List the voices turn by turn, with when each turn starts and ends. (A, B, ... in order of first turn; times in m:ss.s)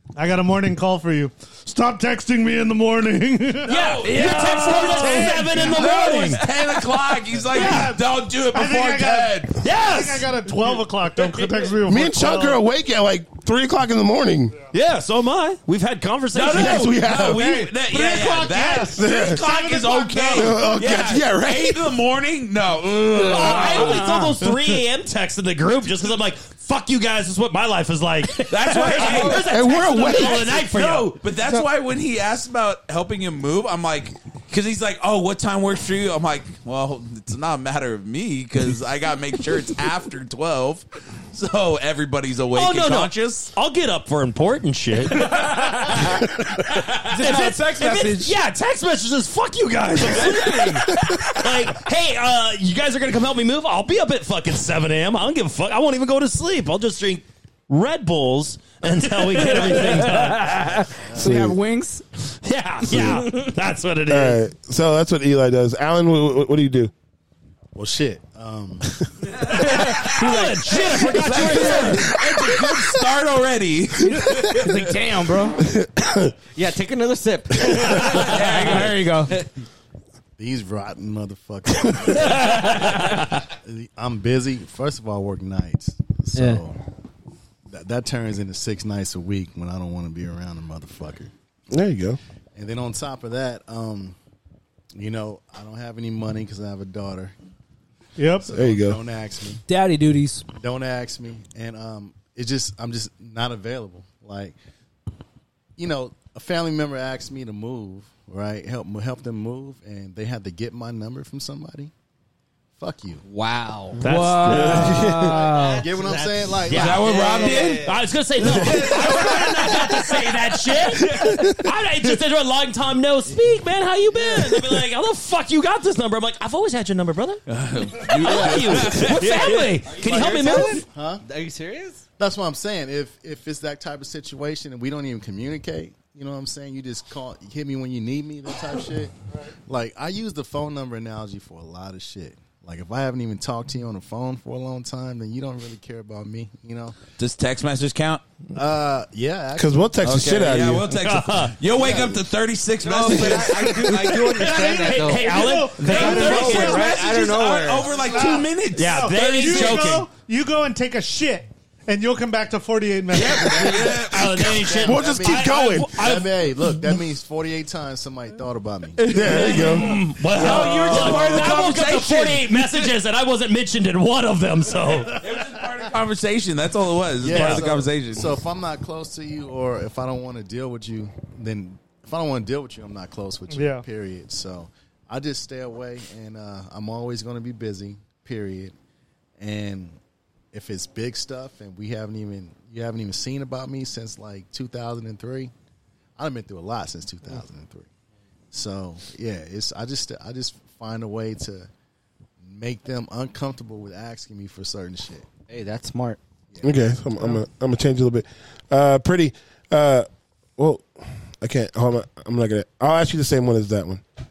0:00.2-0:03.9 A
0:03.7-0:06.5 B
0:03.7-0:09.6 C
0:04.5-0:05.2 D
0:07.5-0:12.6 A
0:09.6-0:10.5 B
0:11.9-0:14.6 D
0:14.7-0:16.9 B
0:16.3-0:24.2 C
0:16.5-0:17.5 D
0:17.1-0:21.0 A
0:18.9-0:19.4 D
0:20.3-0:22.0 D
0:23.2-0:31.2 B
0:23.9-0:24.4 E
0:28.4-0:43.5 C
0:29.3-0:30.6 D
0:42.5-1:00.8 B
0:47.0-0:48.4 E
0:50.1-0:50.8 C
0:59.4-1:02.0 E
1:01.0-1:01.4 F
1:01.2-1:01.6 D
1:02.4-1:04.4 B
1:04.1-1:06.9 D
1:07.8-1:08.9 F
1:09.4-1:12.6 E
1:09.5-1:12.2 B
1:11.2-1:14.8 C
1:14.0-1:15.6 E
1:15.6-1:16.3 D
1:16.6-1:18.9 G
1:17.9-1:19.4 E
1:18.0-1:19.5 C
1:20.4-1:22.9 F
1:23.4-1:26.8 F
1:26.4-1:26.6 E
1:27.7-1:31.3 F
1:31.7-1:32.2 D
1:32.6-1:34.2 F
1:35.0-1:37.3 F
1:38.2-1:38.5 A
1:38.5-1:39.6 F
1:38.5-1:39.0 D
1:39.7-1:40.5 E
1:40.6-1:44.6 F
1:45.8-1:51.9 F
1:52.8-1:53.2 F
1:53.2-1:54.0 G
1:54.0-1:55.0 B
1:54.0-1:55.9 E
1:54.0-1:55.4 D
1:54.8-1:59.9 G
1:55.5-1:57.6 F
1:56.7-2:10.8 B
1:56.7-1:57.9 C
1:58.4-1:59.9 C
2:01.0-2:01.3 C
2:01.0-2:01.6 D
2:04.1-2:04.5 F
2:07.5-2:10.7 C
2:08.2-2:09.2 F
2:10.0-2:12.0 G
2:10.3-2:11.2 F
2:12.2-2:19.2 F
2:19.7-2:27.0 F
2:27.2-2:28.2 C
2:28.5-2:30.3 F
2:29.6-2:30.9 D
2:30.0-2:34.2 C
2:30.9-2:31.6 B
2:31.8-2:32.2 F
2:31.8-2:32.1 G
2:32.8-2:38.2 G
2:33.8-2:36.9 B
2:34.3-2:37.0 A
2:35.8-2:40.0 C
2:37.9-2:44.0 A
2:38.7-2:40.1 B
2:43.2-2:44.9 C
2:43.3-2:44.0 F
2:43.4-2:46.4 B
2:44.2-2:46.1 D
2:44.6-2:49.7 F
2:49.1-2:50.0 D
2:49.1-2:55.3 B
2:49.4-2:49.7 C
2:50.3-2:52.9 C
2:50.6-2:51.4 G
2:55.0-2:58.4 C
2:57.2-3:08.8 F
2:57.3-2:57.7 B
3:03.5-3:03.9 A
3:09.4-3:10.0 F
3:10.5-3:15.5 F
3:16.2-3:17.9 F
3:18.5-3:21.7 F
3:22.4-3:25.3 F
3:25.5-3:26.2 G
3:26.6-3:34.0 D